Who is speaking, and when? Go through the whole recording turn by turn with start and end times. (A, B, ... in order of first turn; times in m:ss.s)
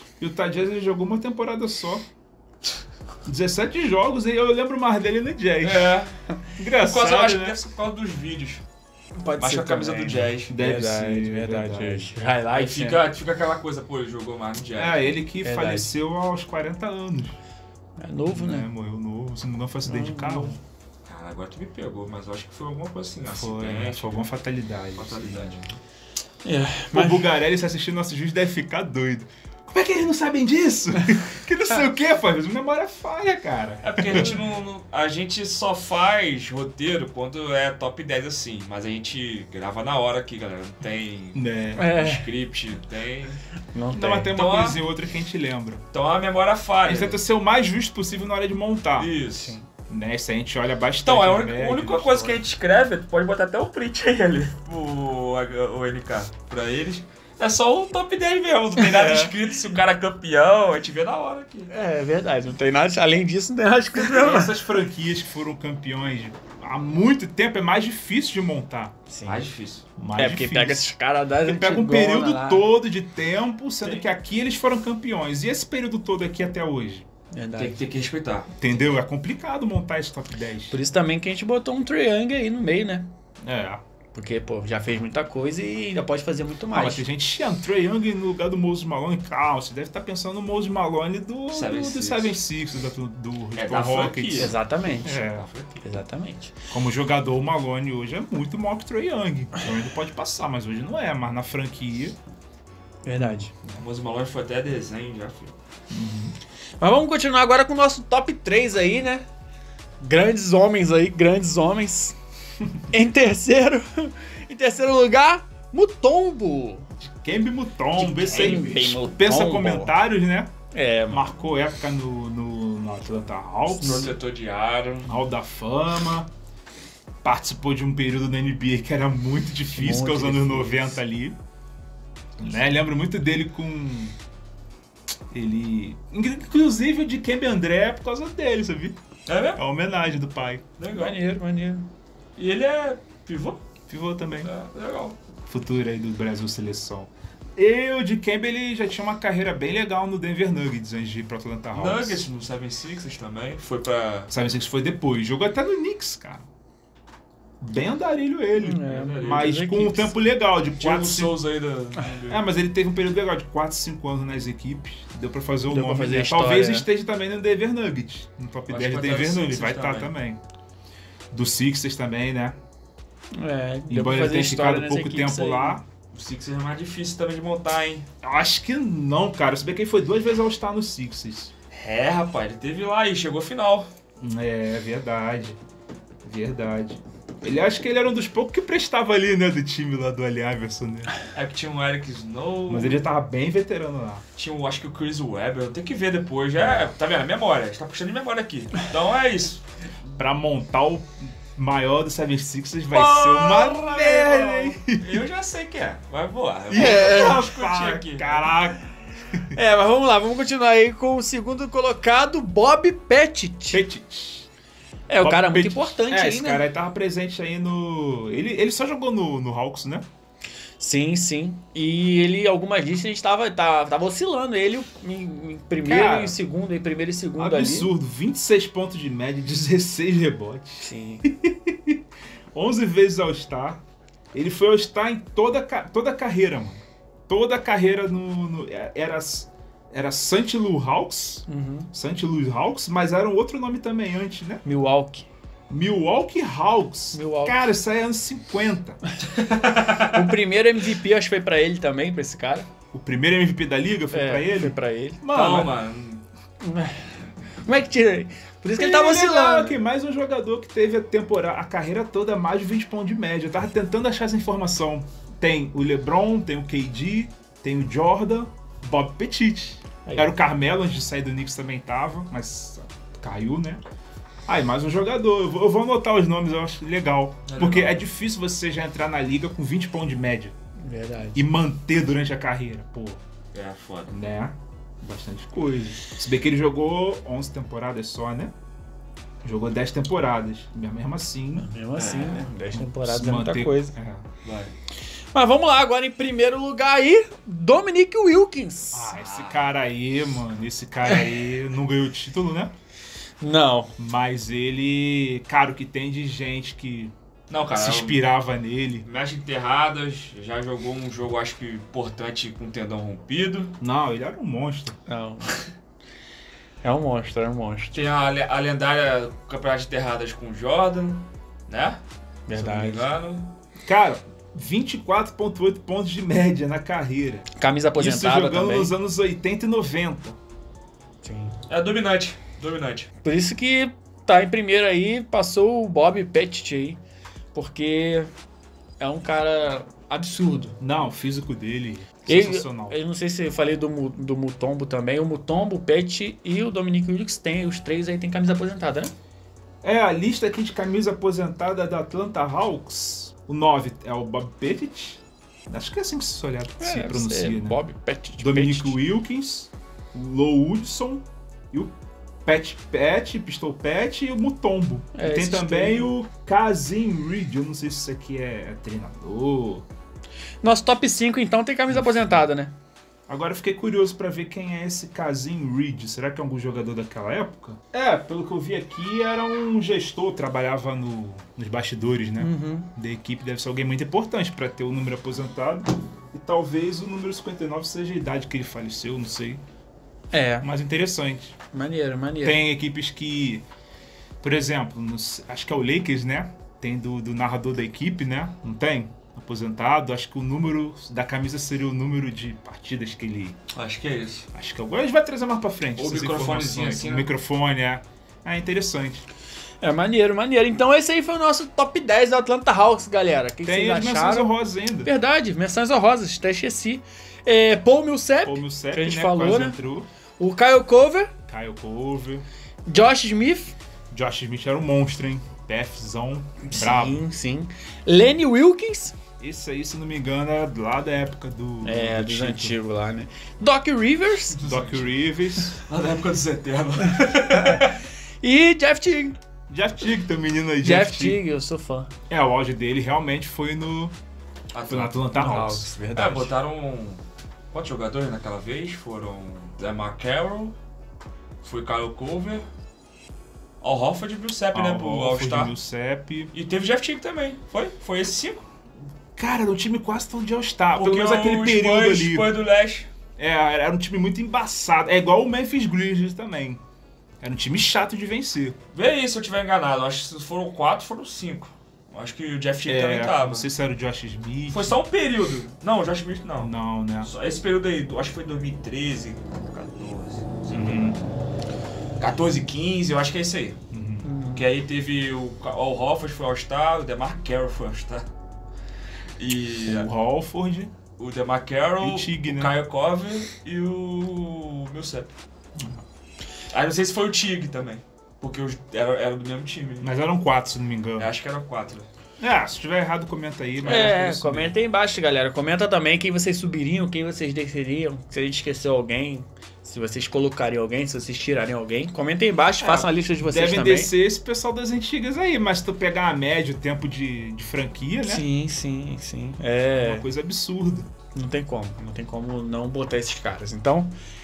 0:00.2-0:02.0 A
0:03.3-0:06.0 A
0:05.6-0:06.2 B
0:06.6-0:07.6 A
0:06.9-0:08.6 B
0:09.2-0:13.0 C
0:09.4-0:10.5 B
0:10.5-0:12.1 A
0:12.5-0:15.1 B
0:14.8-0:17.4 A
0:15.4-0:15.9 C
0:18.0-0:18.7 C
0:18.3-0:20.6 A
0:19.8-0:20.6 C
0:21.1-0:24.3 B
0:23.2-0:25.6 A
0:25.0-0:25.8 B
0:26.4-0:27.3 C
0:26.9-0:34.3 A
0:33.8-0:43.4 B
0:41.4-0:41.9 A
0:41.8-0:42.3 C
0:43.7-0:44.3 C
0:43.9-0:45.8 A
0:44.3-0:44.8 B
0:45.9-0:47.2 B
0:46.8-0:49.2 A
0:49.0-0:49.6 B
0:49.3-0:49.7 C
0:49.9-0:52.4 A
0:51.0-1:01.7 B
0:58.8-0:59.3 C
1:01.7-1:04.6 C
1:03.9-1:09.0 A
1:09.1-1:09.5 C
1:09.2-1:09.8 B
1:10.0-1:10.9 A
1:10.2-1:12.7 C
1:11.4-1:17.1 A
1:17.3-1:17.8 C
1:17.6-1:18.5 B
1:18.6-1:20.8 A
1:20.7-1:23.1 C
1:23.4-1:23.8 A
1:24.1-1:27.0 C
1:26.7-1:35.5 A
1:31.5-1:32.4 B
1:33.6-1:35.8 B
1:34.4-1:35.2 C
1:35.8-1:36.5 C
1:36.7-1:42.2 A
1:43.0-1:43.5 C
1:43.2-1:43.8 A
1:43.8-1:45.6 B
1:45.9-1:46.4 A
1:46.8-1:49.2 C
1:50.0-1:52.2 C
1:52.9-1:56.9 C
1:57.0-2:00.5 A
1:58.0-2:00.0 C
1:58.3-1:58.6 B
2:00.7-2:01.3 C
2:01.1-2:04.2 A
2:03.7-2:05.2 B
2:03.8-2:04.1 C
2:05.1-2:06.3 A
2:07.2-2:11.4 A
2:09.7-2:11.0 C
2:12.4-2:14.2 A
2:15.3-2:19.0 A
2:19.3-2:19.6 B
2:19.6-2:20.7 A
2:20.8-2:21.2 B
2:20.9-2:21.9 C
2:22.4-2:23.6 B
2:23.9-2:24.5 A
2:24.4-2:25.2 B
2:25.5-2:32.3 A
2:31.7-2:34.3 B
2:34.3-2:36.5 A
2:37.6-2:41.4 A
2:38.6-2:40.2 C
2:38.9-2:39.5 B
2:40.7-2:42.5 B
2:42.3-2:50.4 A
2:45.7-2:46.9 C
2:48.7-2:50.2 B
2:51.3-2:52.6 A
2:53.4-2:55.8 C
2:53.9-2:55.8 A
2:56.1-2:58.1 B
2:58.2-3:01.5 A
3:01.7-3:03.9 B
3:04.2-3:05.6 A
3:06.2-3:11.1 A
3:11.3-3:13.1 B
3:12.7-3:14.2 A
3:14.4-3:19.6 B
3:20.1-3:25.2 A
3:22.9-3:28.6 B
3:26.7-3:27.4 C
3:26.7-3:29.6 A
3:29.5-3:33.8 C
3:33.7-3:34.5 A
3:35.1-3:36.6 C
3:35.2-3:40.1 A
3:40.8-3:47.9 C
3:45.8-3:46.4 A
3:47.4-3:52.0 A
3:50.8-3:51.3 C
3:52.5-4:04.6 A
4:01.5-4:01.9 C
4:04.6-4:05.3 C
4:05.7-4:09.0 A
4:07.1-4:07.6 C
4:09.4-4:10.3 B
4:10.0-4:12.7 C
4:12.9-4:15.8 A
4:14.1-4:15.2 C
4:15.3-4:16.2 B
4:16.6-4:19.8 C
4:18.8-4:33.8 A
4:34.5-4:40.6 A
4:37.5-4:38.0 B
4:40.8-4:41.5 C
4:41.4-4:43.2 A
4:43.5-4:44.2 B
4:44.1-4:48.5 A
4:49.4-4:51.7 A
4:51.6-4:54.0 C
4:52.0-4:52.5 B
4:52.7-4:54.3 A
4:54.4-4:54.8 B
4:55.3-4:59.2 C
4:58.9-5:02.7 A
4:59.2-4:59.8 B
5:03.4-5:03.9 C
5:04.0-5:07.1 A
5:07.5-5:08.2 B
5:07.7-5:09.1 A
5:09.0-5:13.7 B
5:13.8-5:15.0 A
5:15.1-5:15.6 C
5:16.8-5:18.0 C
5:17.9-5:22.0 B
5:22.5-5:23.1 C
5:22.5-5:23.5 B
5:23.8-5:30.4 A
5:27.6-5:28.9 C
5:31.2-5:31.6 C
5:31.7-5:33.1 B
5:33.2-5:37.0 C
5:37.5-5:38.3 C
5:39.0-5:40.8 C
5:40.8-5:43.0 A
5:42.3-5:49.1 C
5:49.8-5:57.8 A
5:56.8-5:59.0 C
5:58.4-6:02.0 A
6:02.5-6:09.8 A
6:05.2-6:06.1 C
6:10.6-6:12.7 C
6:11.9-6:12.5 A
6:13.3-6:29.6 A
6:22.4-6:22.9 C
6:30.3-6:30.7 C
6:30.6-6:31.6 A
6:31.7-6:32.6 C
6:32.4-6:33.6 A
6:34.4-6:43.6 A
6:43.7-6:44.5 B
6:44.5-6:49.2 A
6:46.0-6:47.3 B
6:49.8-6:54.5 C
6:53.6-6:55.1 A
6:55.0-6:59.8 C
6:58.4-7:00.1 A
7:00.4-7:01.3 C
7:01.5-7:02.4 A
7:02.9-7:03.8 C
7:04.1-7:07.2 A
7:06.6-7:09.1 C
7:09.4-7:12.8 A
7:11.8-7:14.6 C
7:14.6-7:15.1 B
7:14.6-7:15.8 A
7:15.7-7:18.0 B
7:17.1-7:19.4 C
7:19.7-7:21.4 A
7:20.8-7:22.1 C
7:22.3-7:24.1 A
7:24.7-7:25.2 B
7:24.9-7:25.9 A
7:25.3-7:26.5 C
7:26.1-7:30.8 B
7:31.6-7:32.7 B
7:33.8-7:35.8 B
7:34.7-7:36.5 A
7:36.5-7:38.7 B
7:39.4-7:42.5 A
7:40.9-7:43.1 B
7:43.4-7:46.8 A
7:47.4-7:48.8 A
7:48.9-7:53.7 B
7:52.9-7:55.0 A
7:54.7-8:01.3 B
7:56.6-7:57.3 A
8:00.7-8:01.2 A
8:02.2-8:03.8 B
8:03.9-8:04.3 A
8:04.2-8:04.7 C
8:04.5-8:08.3 B
8:09.4-8:10.1 B
8:09.8-8:10.9 A
8:11.2-8:15.3 B
8:12.0-8:12.7 A
8:15.8-8:16.0 A
8:16.7-8:20.1 B
8:20.0-8:21.3 A
8:21.2-8:22.1 B
8:22.4-8:24.8 A
8:23.8-8:34.1 C
8:32.8-8:33.1 B
8:33.4-8:38.4 A
8:38.2-8:40.2 C
8:40.0-8:41.1 A
8:41.3-8:44.1 C